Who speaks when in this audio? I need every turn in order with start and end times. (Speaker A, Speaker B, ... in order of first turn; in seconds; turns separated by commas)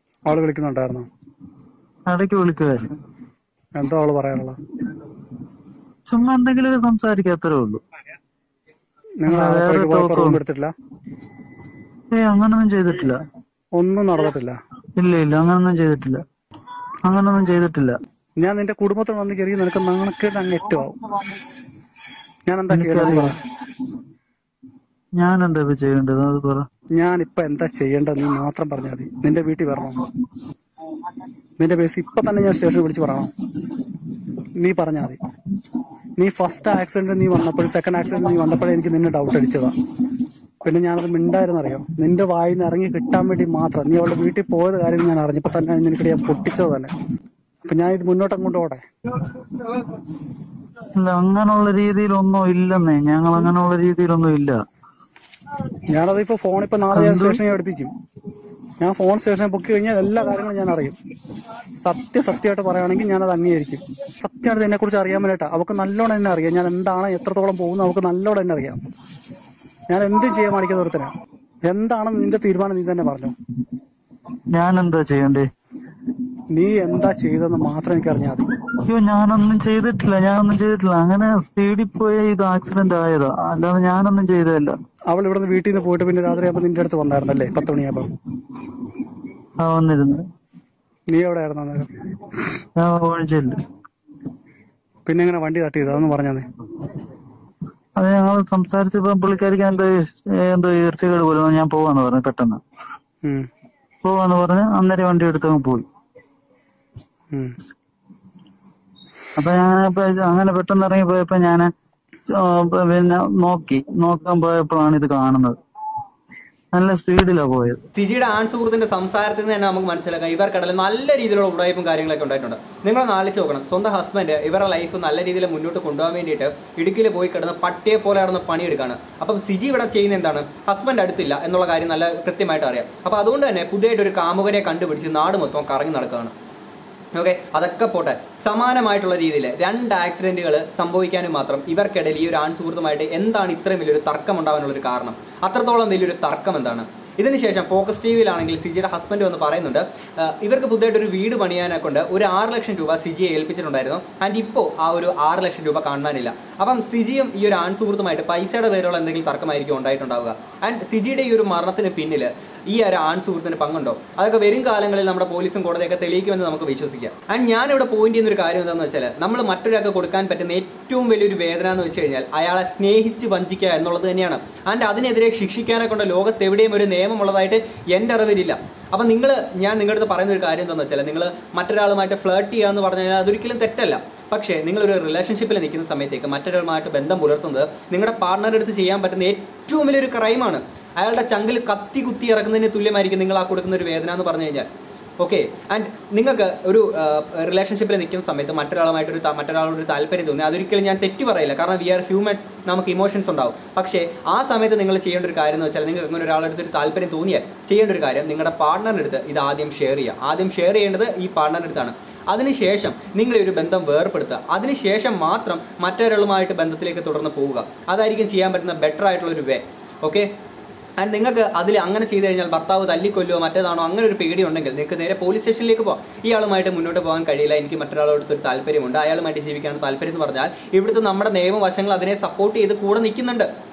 Speaker A: 0.3-1.1, Speaker B: 2.1-2.9, Speaker A: 3.8-4.6, Speaker B: 6.1-7.8, Speaker A: 9.2-10.7, Speaker B: 9.3-10.4, Speaker B: 12.1-13.2, Speaker A: 13.7-14.5, Speaker B: 15.0-16.2, Speaker B: 17.0-17.9, Speaker A: 18.4-20.9, Speaker A: 22.5-23.4, Speaker B: 22.7-23.3, Speaker B: 25.2-26.6, Speaker A: 27.0-30.0, Speaker A: 31.6-33.3, Speaker A: 34.6-35.2, Speaker A: 36.2-39.7, Speaker A: 40.6-46.9, Speaker A: 47.6-48.8, Speaker B: 51.0-54.6, Speaker A: 55.9-57.9, Speaker B: 56.9-57.4, Speaker A: 58.8-61.0, Speaker A: 61.8-68.8, Speaker A: 69.9-71.1, Speaker A: 71.7-73.3, Speaker B: 74.5-75.5, Speaker A: 76.5-78.4, Speaker B: 78.9-84.7, Speaker A: 85.1-88.1, Speaker B: 89.6-90.2, Speaker A: 91.1-91.9, Speaker B: 92.8-93.6, Speaker A: 95.0-96.4, Speaker B: 98.0-99.9, Speaker B: 100.4-102.6, Speaker B: 104.0-105.8, Speaker B: 109.4-111.7, Speaker B: 112.4-115.5, Speaker B: 116.7-117.8, Speaker C: 117.9-136.3, Speaker C: 137.1-194.7, Speaker C: 195.2-220.3, Speaker C: 221.0-233.5